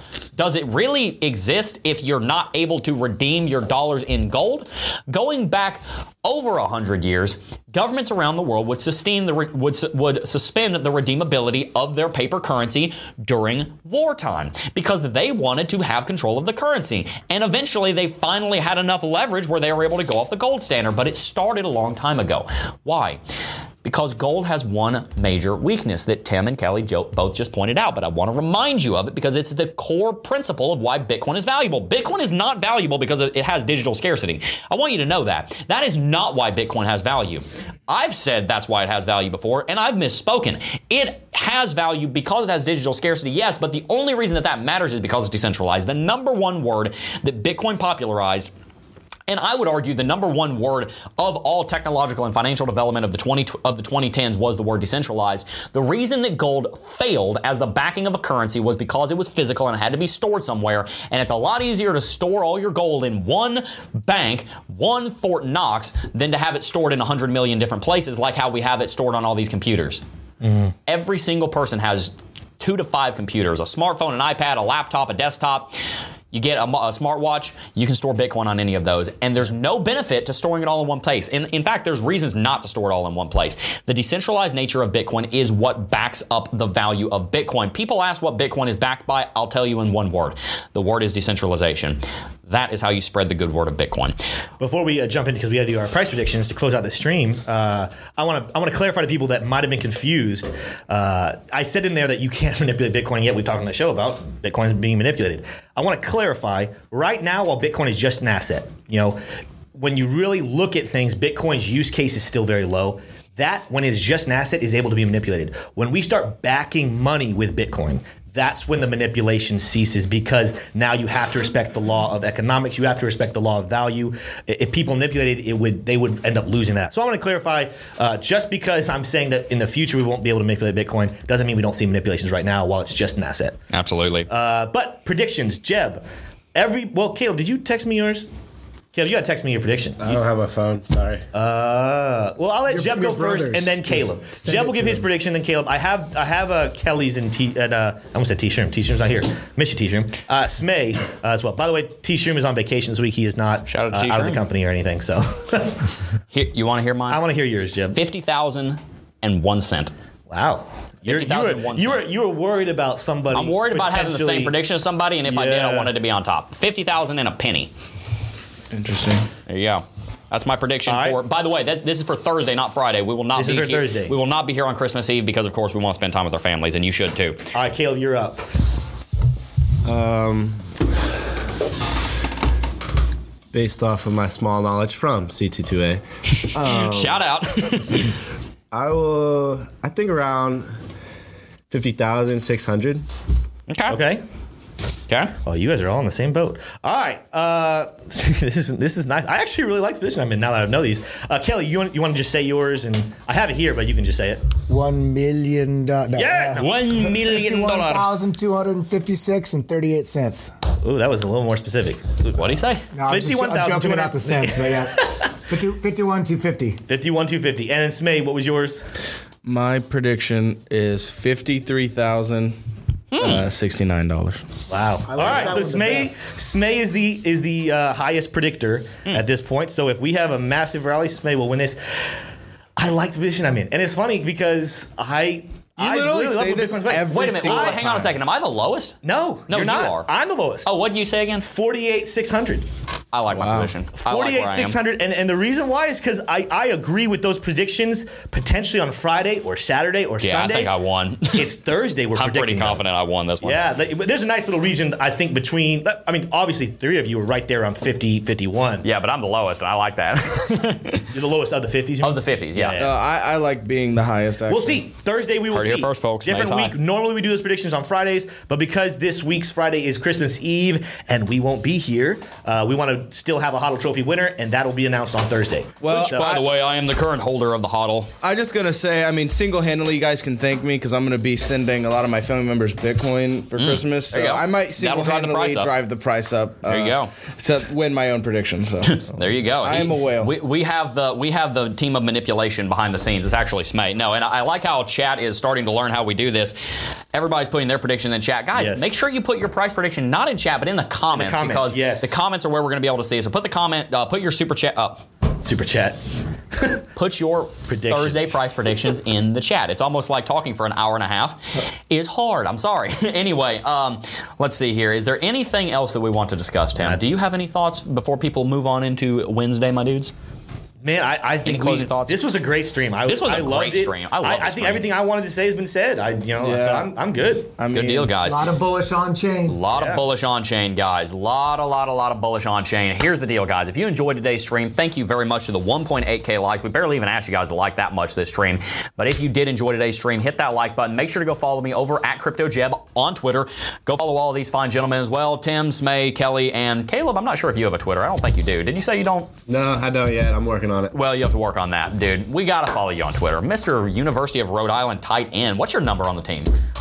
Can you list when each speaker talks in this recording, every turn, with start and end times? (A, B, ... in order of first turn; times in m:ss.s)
0:00.4-0:23.2 A
0:23.8-0:48.5 A
0:49.3-1:10.0 A
1:10.4-1:10.7 B
1:10.9-1:15.8 A
1:16.3-1:34.1 A
1:34.6-1:49.2 B
1:49.7-2:13.6 B
2:13.7-2:14.3 A
2:14.3-2:16.0 B
2:16.5-2:18.3 B
2:18.9-2:20.2 B
2:20.0-2:21.2 C
2:21.3-2:35.9 B
2:22.7-2:25.1 D
2:33.7-2:34.4 A
2:36.3-2:37.2 A
2:37.1-2:38.0 B
2:37.9-2:39.9 A
2:40.3-2:44.5 B
2:41.0-2:42.0 A
2:43.3-2:47.7 A
2:45.3-2:45.9 B
2:48.7-2:49.3 E
2:49.5-2:57.4 A
2:50.9-2:51.2 B
2:53.4-2:54.1 B
2:57.5-2:58.5 B
2:59.8-3:00.6 C
3:03.5-3:07.2 C
3:06.4-3:08.1 A
3:08.7-3:10.7 C
3:11.7-3:13.0 C
3:13.7-3:14.0 A
3:13.9-3:14.2 B
3:15.1-3:15.3 A
3:15.4-3:24.4 B
3:24.7-3:30.6 D
3:26.1-3:26.8 B
3:26.6-3:28.2 A
3:30.8-3:32.4 B
3:32.3-3:32.9 A
3:32.9-3:36.8 D
3:33.1-3:35.2 B
3:36.9-3:38.8 B
3:39.4-3:42.6 E
3:43.1-3:43.4 A
3:43.1-3:44.4 E
3:44.7-3:51.8 B
3:45.1-3:46.3 D
3:52.8-3:58.0 B
3:55.8-3:58.1 E
3:57.1-3:59.0 A
3:59.0-4:00.7 B
3:59.5-4:00.1 A
4:00.6-4:01.4 A
4:01.4-4:02.6 B
4:03.1-4:04.8 A
4:03.3-4:03.7 E
4:04.0-4:10.7 B
4:10.2-4:11.5 A
4:11.3-4:12.8 B
4:12.1-4:13.6 A
4:13.4-4:18.8 B
4:18.8-4:21.1 A
4:21.1-4:23.0 B
4:22.0-4:22.8 A
4:22.8-4:24.8 E
4:24.5-4:36.4 B
4:25.5-4:26.7 A
4:35.8-4:36.4 E
4:35.9-4:38.1 A
4:38.2-4:50.3 E
4:43.6-4:45.7 A
4:46.7-4:47.1 A
4:48.9-4:56.6 A
4:57.1-5:05.0 A
4:58.6-4:58.9 B
5:01.1-5:02.1 B
5:05.4-5:06.0 B
5:06.5-5:06.8 B
5:06.9-5:20.1 A
5:07.7-5:08.3 B
5:20.8-5:27.5 B
5:21.4-5:22.3 A
5:23.0-5:24.9 A
5:26.4-5:26.9 E
5:27.6-5:28.1 E
5:27.7-5:28.4 A
5:28.2-5:29.6 D
5:29.5-5:49.3 A
5:29.7-5:30.0 B
5:49.5-5:50.9 C
5:50.9-5:56.5 A